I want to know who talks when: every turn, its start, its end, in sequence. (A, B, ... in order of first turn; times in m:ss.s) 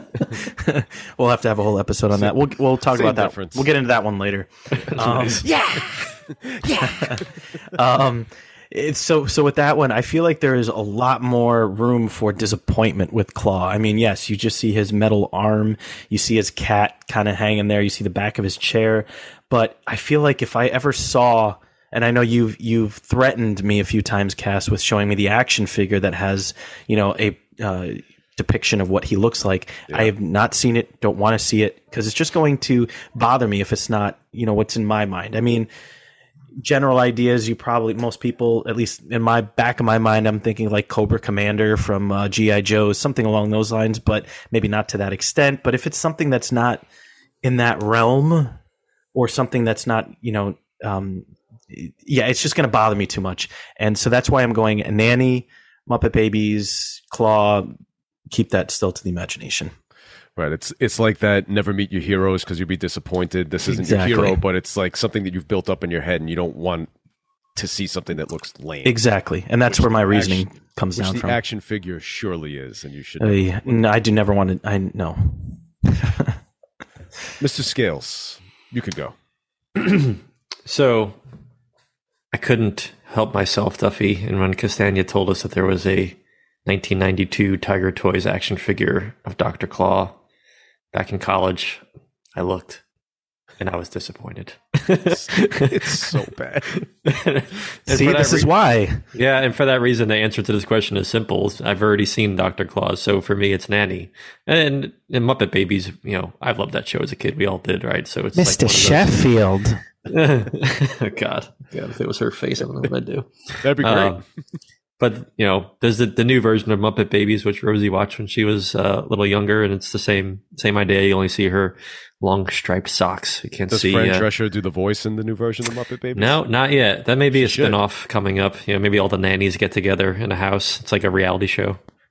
0:00.3-0:05.5 A
0:02.1-0:03.7 B
0:05.0-0:05.4 C
0:05.0-0:07.3 B
0:06.8-0:35.7 A
0:36.6-0:46.8 A
0:47.4-0:48.6 A
0:49.1-0:57.7 A
0:58.3-0:59.7 A
1:00.4-1:06.9 B
1:03.6-1:04.4 A
1:07.6-1:09.0 B
1:08.8-1:11.4 A
1:09.7-1:10.4 B
1:11.0-1:13.5 B
1:13.2-1:16.3 A
1:17.4-1:19.1 B
1:19.8-1:21.2 C
1:22.3-1:30.2 C
1:30.9-1:31.8 C
1:32.4-1:32.8 C
1:33.6-1:36.1 C
1:35.1-1:36.7 B
1:36.7-1:38.5 C
1:37.9-1:39.0 A
1:39.1-1:49.2 C
1:48.4-1:49.8 A
1:50.1-1:54.2 C
1:53.6-1:54.2 B
1:55.0-2:04.3 C
2:03.7-2:06.4 B
2:06.2-2:11.8 C
2:07.3-2:07.8 B